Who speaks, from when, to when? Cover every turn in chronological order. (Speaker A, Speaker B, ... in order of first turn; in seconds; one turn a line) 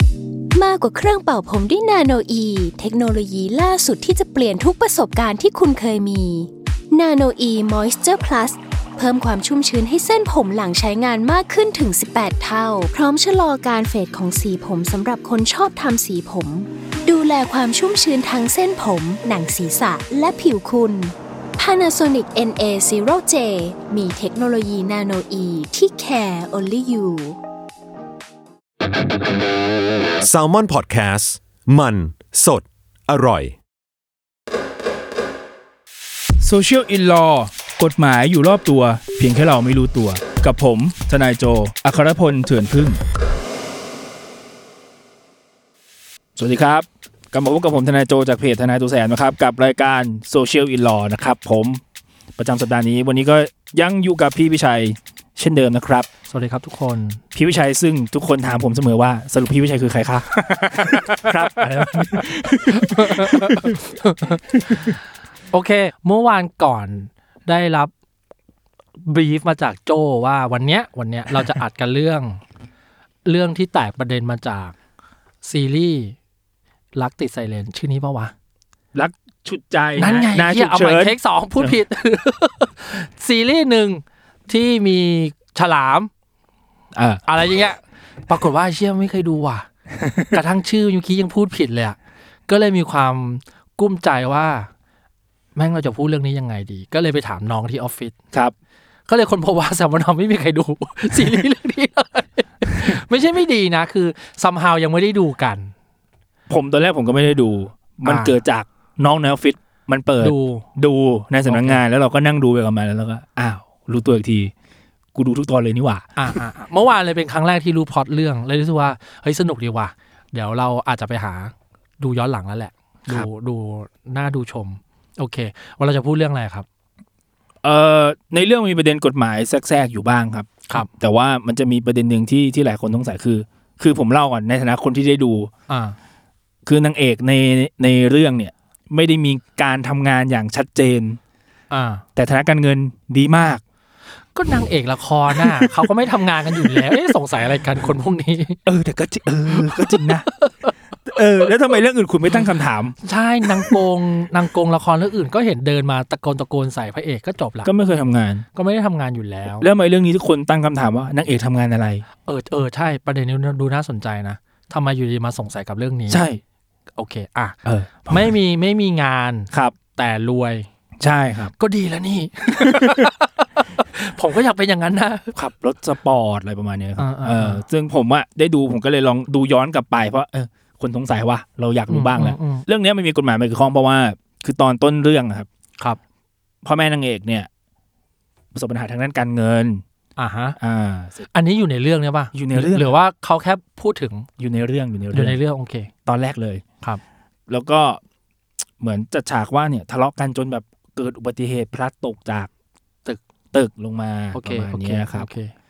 Speaker A: 0.6-27.4
Speaker B: 30.2-33.6
Speaker C: 36.4-43.0
Speaker C: 46.4-51.8
Speaker C: 52.4-56.1
Speaker D: 56.3-57.2
Speaker C: 57.3-63.8
Speaker D: 60.5-67.9
Speaker C: 64.7-64.9
Speaker D: 69.0-72.4
Speaker D: 73.2-74.8
Speaker D: 75.4-76.2
Speaker D: 76.9-78.3
Speaker C: 78.9-81.8
Speaker D: 80.0-86.1
Speaker C: 86.9-87.3
Speaker D: 87.2-89.7
Speaker C: 90.0-90.3
Speaker D: 90.3-92.0
Speaker D: 92.5-94.7
Speaker D: 95.5-98.2
Speaker D: 99.1-105.7
Speaker C: 106.5-114.5
Speaker D: 108.0-108.4
Speaker D: 110.2-110.7
Speaker D: 111.5-111.8
Speaker C: 115.2-116.4
Speaker D: 116.2-126.7
Speaker C: 127.6-135.5
Speaker D: 135.7-136.0
Speaker C: 136.7-141.2
Speaker D: 141.7-142.0
Speaker C: 142.2-143.6
Speaker D: 144.3-148.6
Speaker C: 145.3-145.9
Speaker C: 146.6-147.0
Speaker C: 148.7-150.3
Speaker D: 149.5-150.7
Speaker C: 151.0-153.0
Speaker D: 153.0-157.7
Speaker C: 157.6-158.5
Speaker D: 158.6-159.7
Speaker C: 159.6-162.1
Speaker D: 162.2-166.2
Speaker C: 166.1-166.4
Speaker D: 167.0-170.7
Speaker C: 167.7-168.3
Speaker C: 169.5-169.8
Speaker C: 171.0-171.5
Speaker D: 171.6-175.3
Speaker C: 172.6-173.1
Speaker C: 175.3-185.5
Speaker D: 177.0-177.6
Speaker D: 181.9-182.7
Speaker C: 186.6-187.5
Speaker C: 188.5-189.8
Speaker D: 190.2-190.6
Speaker C: 190.6-191.3
Speaker D: 191.3-194.3
Speaker C: 192.3-192.9
Speaker C: 194.4-195.4
Speaker D: 195.1-195.9
Speaker C: 196.1-196.6
Speaker C: 197.5-198.0
Speaker C: 198.8-202.5
Speaker C: 203.5-205.3
Speaker D: 204.3-205.5